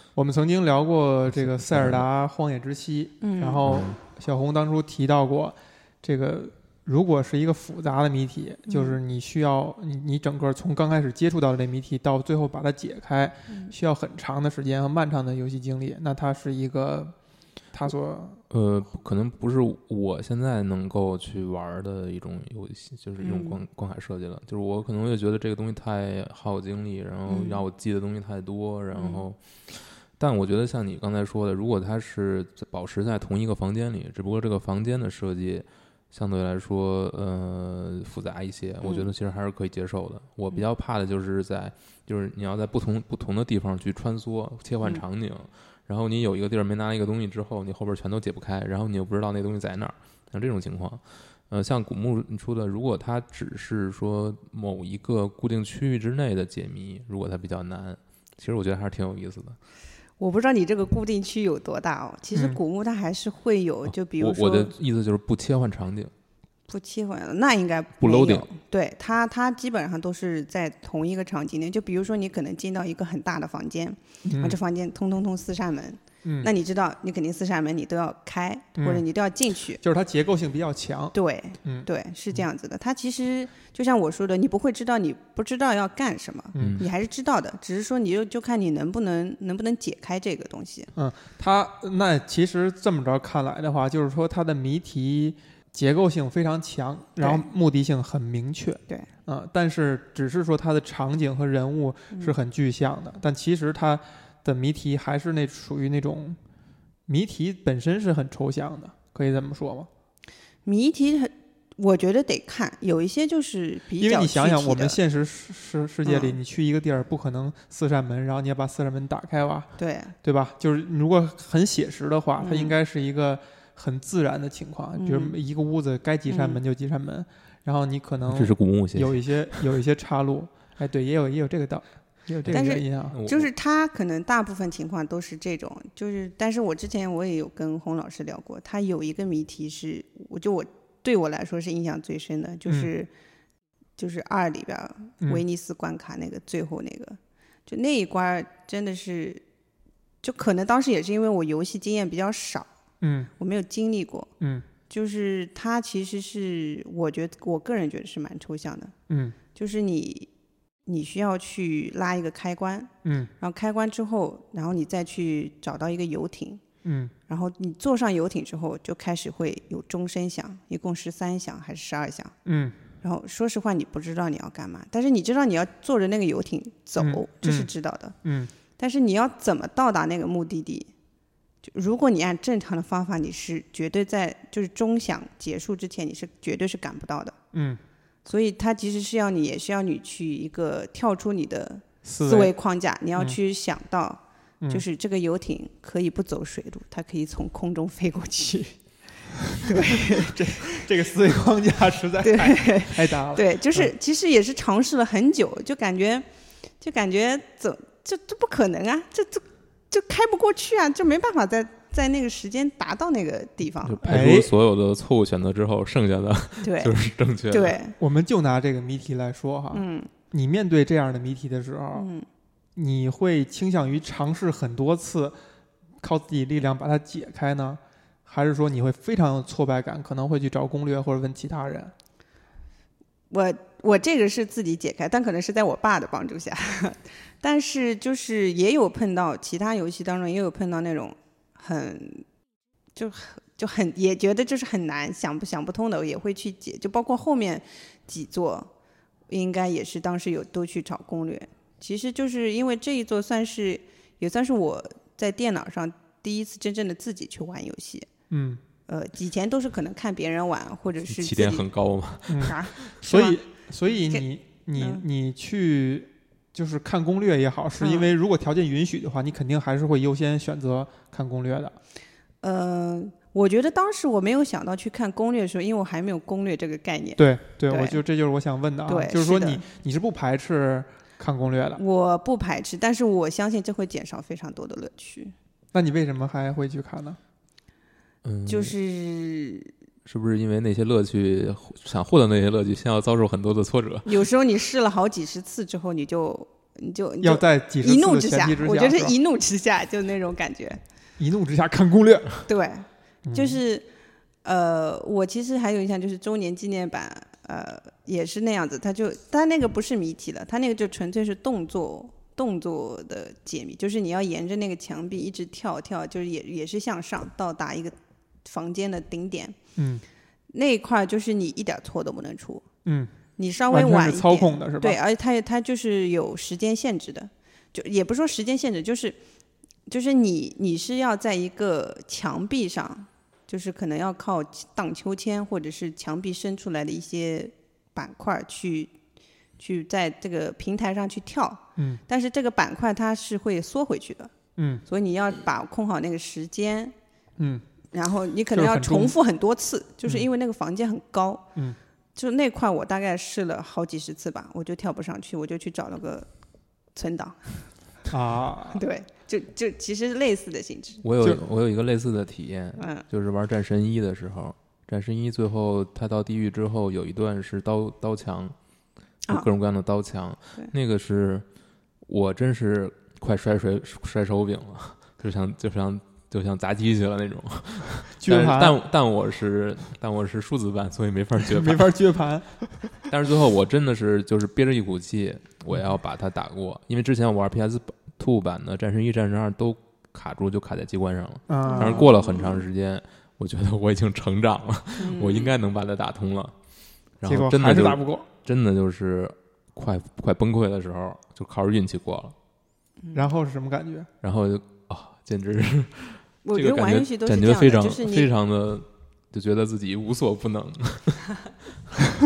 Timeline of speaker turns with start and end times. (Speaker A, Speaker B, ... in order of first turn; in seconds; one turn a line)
Speaker A: 0.1-17.1
Speaker B: 1.4-2.0
Speaker C: 3.2-3.6
Speaker B: 3.6-4.0
Speaker C: 8.7-9.0
Speaker C: 13.5-13.7
Speaker A: 17.7-18.4
Speaker B: 18.5-59.6
Speaker C: 23.2-23.6
Speaker C: 27.3-27.6
Speaker C: 28.9-29.2
Speaker C: 38.8-39.1
Speaker C: 60.2-64.7
Speaker A: 62.3-62.6
Speaker B: 63.9-66.1
Speaker C: 66.7-79.8
Speaker B: 68.0-68.5
Speaker A: 74.2-74.6
Speaker A: 76.2-76.5
Speaker A: 78.8-79.0
Speaker A: 79.8-81.9
Speaker C: 81.1-90.9
Speaker A: 86.5-86.8
Speaker B: 86.6-86.9
Speaker A: 90.9-106.4
Speaker C: 97.2-97.4
Speaker A: 107.1-109.9
Speaker C: 110.7-115.0
Speaker A: 114.0-119.7
Speaker C: 116.0-116.4
Speaker C: 119.8-120.1
Speaker A: 120.2-133.2
Speaker C: 122.4-122.7
Speaker C: 125.0-125.4
Speaker C: 126.3-126.6
Speaker B: 128.3-129.6
Speaker C: 132.5-143.1
Speaker B: 132.5-133.5
Speaker C: 144.0-149.4
Speaker C: 150.2-152.7
Speaker A: 153.0-153.3
Speaker C: 153.4-154.3
Speaker C: 154.9-158.9
Speaker A: 159.1-159.4
Speaker C: 159.5-160.3
Speaker C: 160.8-166.6
Speaker A: 163.0-163.3
Speaker A: 166.8-167.1
Speaker C: 167.3-172.3
Speaker A: 172.4-172.8
Speaker C: 173.0-178.2
Speaker A: 177.0-177.7
Speaker A: 178.2-178.5
Speaker C: 178.8-180.9
Speaker C: 181.6-187.3
Speaker A: 187.5-187.8
Speaker C: 188.2-198.8
Speaker A: 192.0-192.5
Speaker C: 199.5-200.7
Speaker A: 200.1-203.9
Speaker C: 202.2-206.2
Speaker C: 206.8-214.1
Speaker B: 213.8-217.8
Speaker A: 214.0-214.5
Speaker C: 216.6-216.9
Speaker C: 217.5-217.9
Speaker A: 218.0-222.1
Speaker C: 219.7-220.1
Speaker C: 221.9-222.2
Speaker A: 222.8-225.4
Speaker A: 226.0-231.9
Speaker C: 233.3-242.2
Speaker C: 242.9-248.7
Speaker C: 249.3-258.1
Speaker A: 258.3-258.6
Speaker C: 258.9-261.7
Speaker B: 261.1-262.9
Speaker A: 262.3-271.8
Speaker C: 262.4-263.4
Speaker C: 263.9-264.2
Speaker C: 264.8-265.0
Speaker C: 267.8-268.1
Speaker C: 272.4-278.0
Speaker A: 277.2-281.8
Speaker C: 278.9-279.6
Speaker C: 281.8-285.3
Speaker A: 285.7-287.2
Speaker B: 288.2-288.7
Speaker C: 288.5-289.7
Speaker B: 290.0-294.2
Speaker C: 294.1-300.8
Speaker A: 297.2-299.1
Speaker A: 301.2-302.4
Speaker C: 302.4-303.9
Speaker A: 303.2-303.6
Speaker C: 304.4-319.6
Speaker A: 319.8-320.0
Speaker C: 320.5-322.6
Speaker A: 322.8-323.1
Speaker C: 323.4-329.2
Speaker A: 323.7-325.0
Speaker C: 329.9-338.9
Speaker C: 339.6-344.3
Speaker A: 344.6-344.8
Speaker C: 344.9-346.9
Speaker A: 347.4-347.6
Speaker C: 347.9-351.5
Speaker A: 348.5-349.1
Speaker C: 352.1-356.3
Speaker C: 356.9-357.6
Speaker A: 358.1-358.8
Speaker C: 358.7-361.0
Speaker B: 361.0-368.5
Speaker C: 362.8-363.0
Speaker B: 369.3-371.4
Speaker B: 372.1-382.0
Speaker A: 378.2-378.8
Speaker A: 381.5-382.9
Speaker B: 383.1-396.5
Speaker A: 391.5-392.1
Speaker C: 391.6-392.6
Speaker C: 395.0-395.5
Speaker B: 397.2-402.3
Speaker A: 397.2-398.3
Speaker A: 403.1-404.1
Speaker B: 404.2-411.4
Speaker C: 406.4-408.3